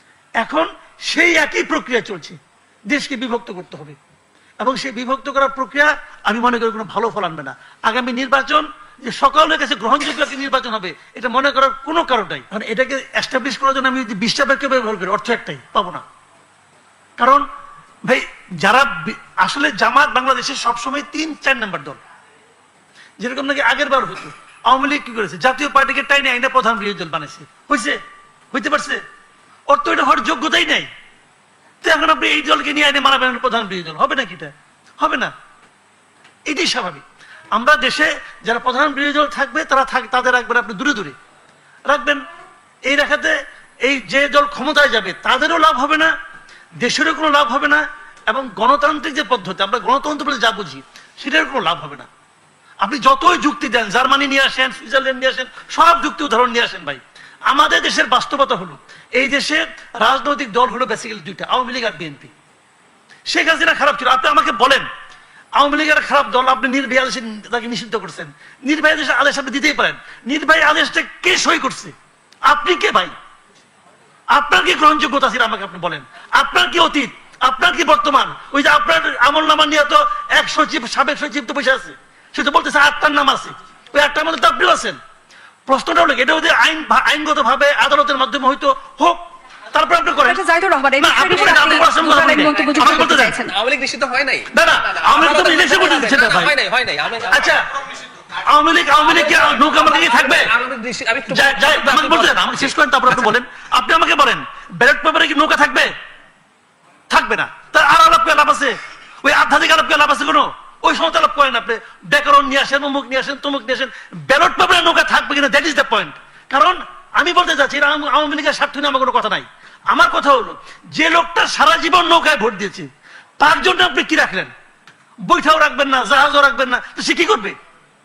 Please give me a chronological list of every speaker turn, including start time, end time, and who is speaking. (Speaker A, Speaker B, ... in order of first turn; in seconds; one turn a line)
Speaker A: 0.4-2.4
Speaker A: 2.9-4.0
Speaker A: 4.6-16.0
Speaker A: 17.2-17.4
Speaker A: 18.0-22.0
Speaker A: 23.2-28.0
Speaker A: 28.5-29.0
Speaker A: 29.7-30.9
Speaker A: 31.8-35.3
Speaker A: 36.5-41.1
Speaker A: 41.9-42.2
Speaker A: 42.9-46.1
Speaker A: 46.8-52.1
Speaker A: 52.8-62.3
Speaker A: 63.3-64.8
Speaker A: 65.6-71.9
Speaker A: 72.5-73.1
Speaker A: 74.3-85.0
Speaker A: 85.7-89.2
Speaker A: 89.7-90.4
Speaker B: 90.2-93.5
Speaker A: 91.0-93.4
Speaker C: 92.6-97.5
Speaker A: 94.5-96.5
Speaker A: 97.3-97.6
Speaker A: 98.4-100.5
Speaker C: 99.0-103.3
Speaker A: 101.3-105.9
Speaker A: 107.1-122.9
Speaker A: 123.4-124.5
Speaker A: 125.2-127.5